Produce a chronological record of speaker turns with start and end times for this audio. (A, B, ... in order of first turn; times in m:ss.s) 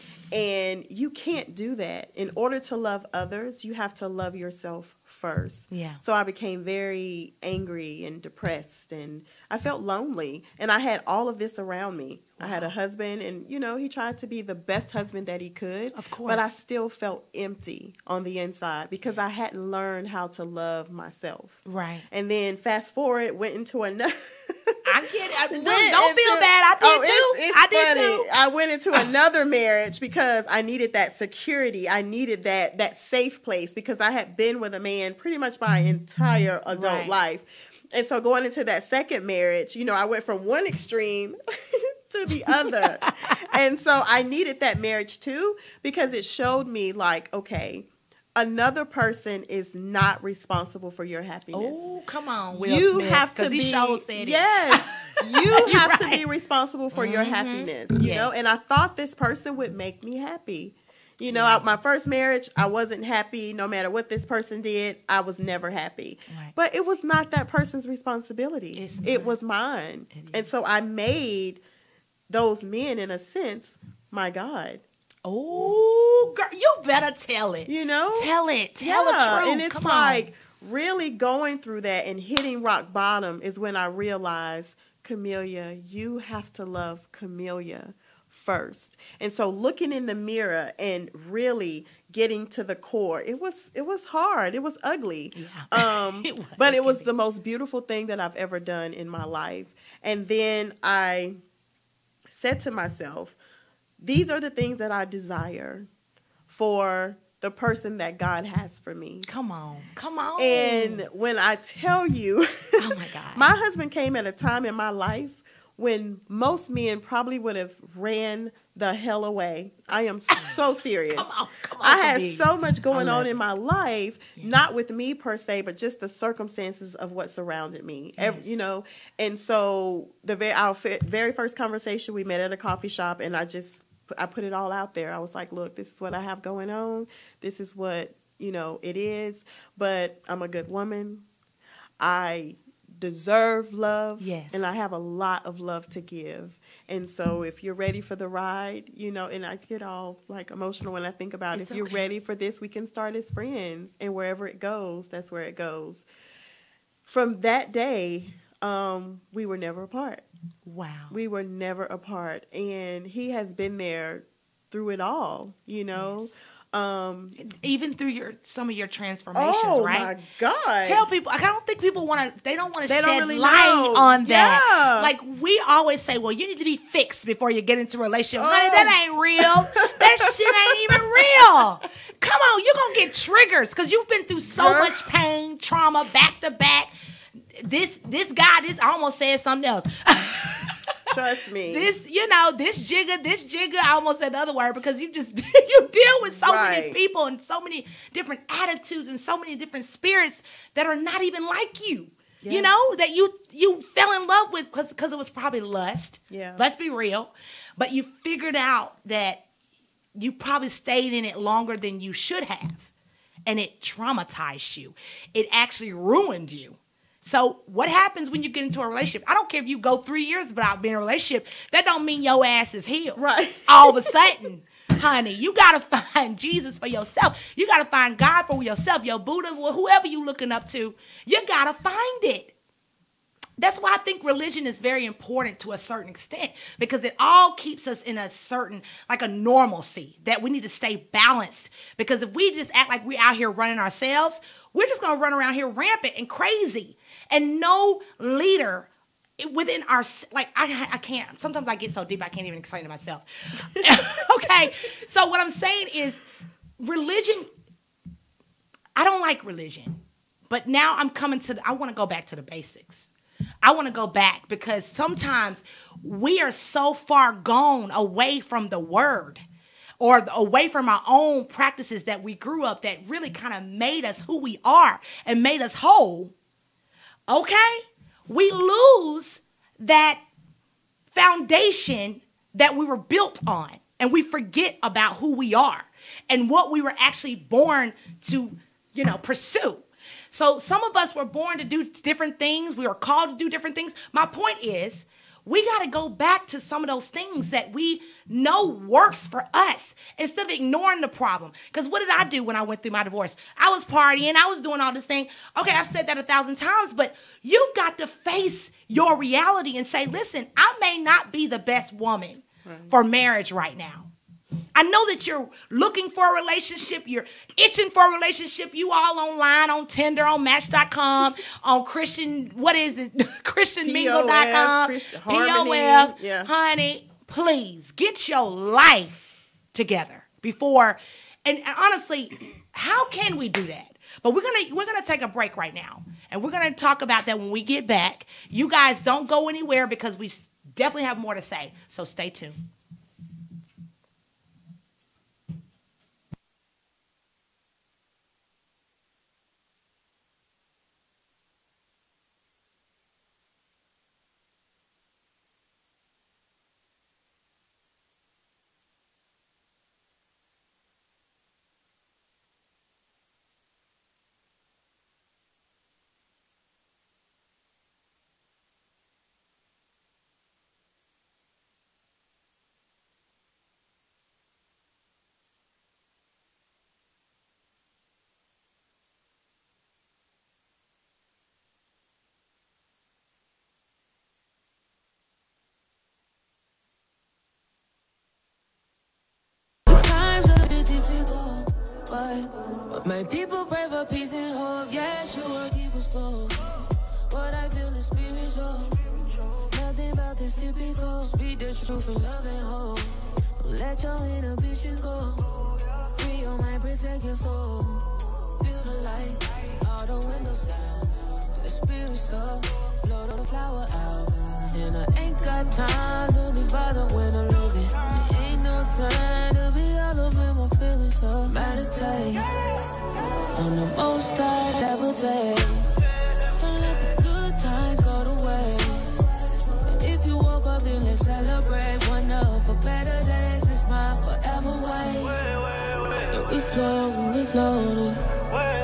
0:00.3-0:24.8 A
0:05.7-0:06.0 B
0:12.4-0:12.7 B
0:15.9-0:16.5 B
0:21.6-0:22.1 B
0:24.8-0:28.3 B
0:25.5-0:51.8 A
0:36.7-0:37.1 B
0:42.7-0:43.4 B
0:51.5-0:56.2 B
0:52.6-1:11.6 A
0:56.9-0:58.3 B
1:01.3-1:01.6 B
1:08.8-1:09.4 B
1:10.1-1:10.4 B
1:12.3-1:14.8 A
1:15.3-1:20.3 B
1:17.7-1:41.4 A
1:35.4-1:37.1 B
1:42.3-1:43.4 A
1:44.0-1:45.9 A
1:46.5-1:49.3 A
1:49.3-1:51.1 B
1:50.4-2:21.2 A
1:52.8-1:53.5 B
2:01.1-2:03.3 B
2:08.2-2:08.5 B
2:22.0-2:36.1 A
2:24.2-2:24.7 B
2:31.5-2:32.0 B
2:37.1-2:40.2 A
2:40.7-2:41.2 B
2:41.1-2:47.4 A
2:45.9-2:46.3 B
2:47.4-2:50.1 B
2:49.3-2:51.1 A
2:50.8-3:06.9 B
2:52.9-2:55.1 A
2:58.4-3:01.2 A
3:04.5-3:05.0 A
3:07.6-3:10.9 B
3:11.1-3:11.9 A
3:11.7-3:29.4 B
3:16.4-3:17.0 A
3:22.4-3:22.7 A
3:26.3-3:26.6 A
3:30.2-3:32.9 B
3:33.5-3:52.5 B
3:43.2-3:44.2 A
3:53.6-4:16.2 B
4:13.8-4:14.2 A
4:16.8-4:17.5 B
4:19.0-4:23.1 B
4:23.6-4:29.4 B
4:30.0-4:36.3 B
4:37.3-4:40.2 B
4:41.1-5:14.1 B
5:12.7-5:12.9 A
5:14.8-5:42.6 B
5:23.8-5:26.5 A
6:29.9-6:39.0 C
6:39.6-6:45.5 C
6:46.1-7:02.5 C
7:03.5-7:05.9 C
7:06.5-7:09.3 C
7:09.9-7:15.4 C
7:16.3-7:18.2 C